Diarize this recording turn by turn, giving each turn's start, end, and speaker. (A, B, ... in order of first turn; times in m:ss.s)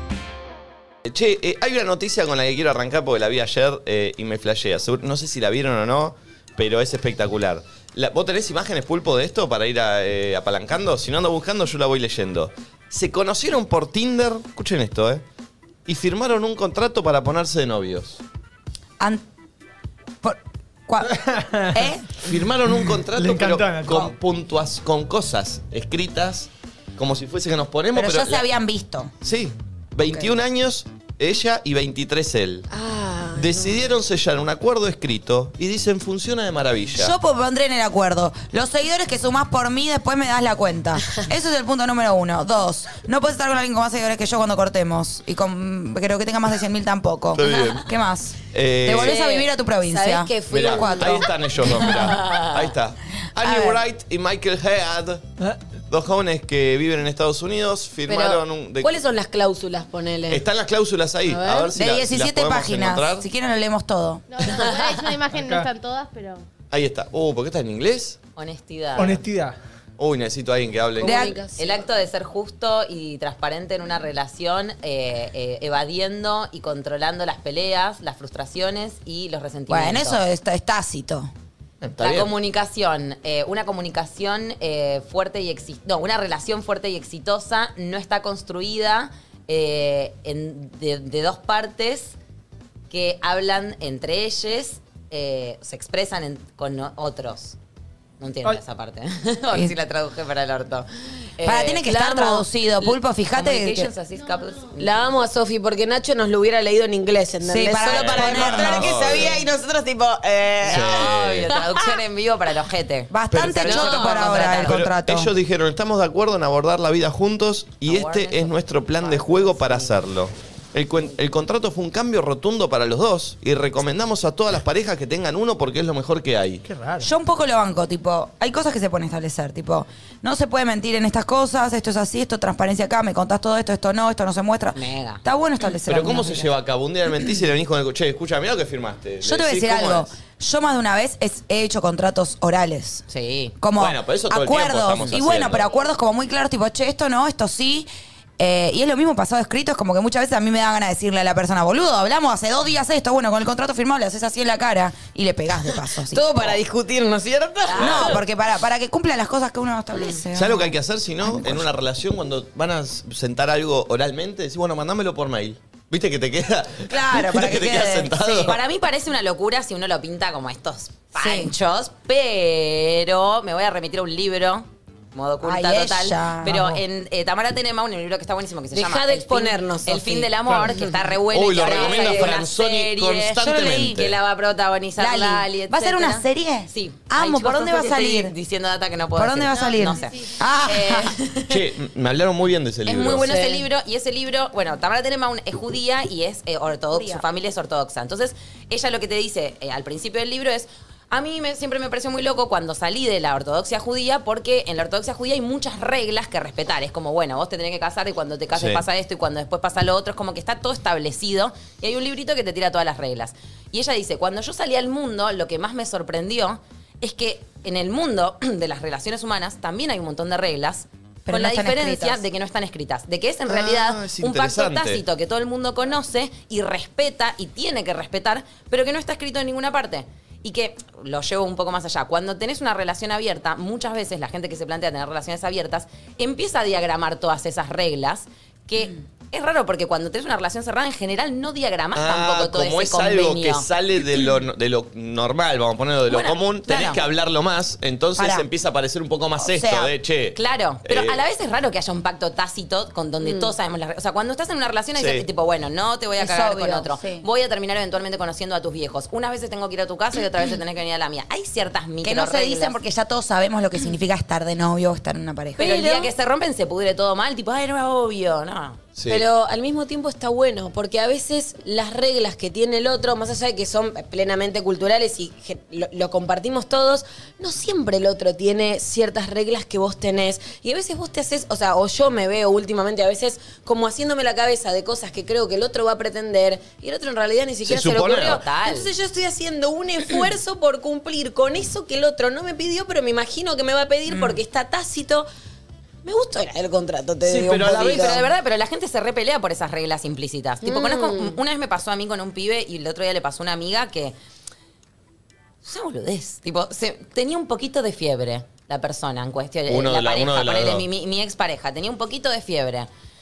0:01.0-0:15.2 A
0:15.9-0:18.2 A
0:19.0-0:19.2 B
0:20.2-0:22.1 B
0:21.1-0:21.7 C
0:22.2-0:28.5 A
0:22.3-0:24.1 C
0:27.9-0:29.1 B
0:29.2-0:32.7 A
0:30.0-0:30.3 B
0:32.7-0:33.8 D
0:33.3-0:37.2 A
0:37.0-0:51.3 B
0:47.3-0:48.0 A
0:48.5-0:49.2 A
0:48.9-0:52.1 D
0:50.5-0:55.3 A
0:53.4-0:53.8 B
0:55.9-0:59.0 A
0:58.1-1:00.5 D
1:00.3-1:03.3 A
1:01.2-1:01.7 D
1:01.8-1:04.2 B
1:04.3-1:06.4 E
1:05.3-1:05.7 C
1:06.7-1:08.2 A
1:08.4-1:09.2 F
1:09.0-1:09.6 C
1:10.0-1:11.3 A
1:11.0-1:11.7 D
1:11.0-1:11.4 B
1:11.6-1:20.2 F
1:19.7-1:21.3 B
1:21.8-1:22.3 A
1:22.0-1:32.2 F
1:32.9-1:37.6 F
1:38.2-1:45.2 F
1:41.4-1:43.9 B
1:44.2-1:44.7 E
1:44.8-1:51.1 D
1:47.4-1:48.9 B
1:47.8-1:49.5 A
1:50.6-1:51.5 A
1:50.7-1:54.8 F
1:53.1-1:55.3 B
1:53.3-2:06.6 A
1:57.8-2:00.0 F
2:06.6-2:07.1 C
2:07.0-2:16.5 B
2:14.7-2:15.2 F
2:15.8-2:20.1 A
2:19.2-2:23.0 B
2:23.1-2:23.6 F
2:23.6-2:36.3 B
2:23.8-2:25.7 A
2:36.1-2:38.2 D
2:37.7-2:38.2 F
2:37.8-2:41.7 B
2:37.8-2:38.2 A
2:40.3-2:48.6 A
2:46.9-2:48.6 B
2:48.5-3:11.6 F
2:51.2-2:51.5 B
2:55.4-2:56.8 B
2:58.7-3:00.9 D
3:00.5-3:00.8 C
3:01.3-3:04.2 A
3:01.6-3:02.3 D
3:05.0-3:08.3 B
3:09.2-3:11.1 B
3:09.5-3:10.4 E
3:11.5-3:13.3 A
3:12.9-4:03.7 F
3:13.3-3:13.6 D
3:16.9-3:17.2 B
3:28.5-3:28.8 A
3:41.3-3:42.2 B
3:43.5-3:45.0 A
4:01.9-4:11.2 A
4:06.1-4:07.0 F
4:08.2-4:08.5 B
4:09.4-4:09.9 B
4:10.3-4:22.8 F
4:13.2-4:13.5 D
4:15.0-4:15.3 A
4:16.2-4:17.3 B
4:22.0-4:25.8 B
4:25.6-4:26.1 D
4:25.6-4:28.8 F
4:29.0-4:29.2 A
4:29.1-4:55.3 D
4:47.6-4:48.4 A
4:47.9-4:48.9 F
4:54.1-4:54.4 B
4:56.0-4:58.2 D
4:57.2-4:58.2 A
4:57.8-5:04.2 F
5:00.6-5:01.4 D
5:05.6-5:12.9 F
5:09.7-5:10.9 A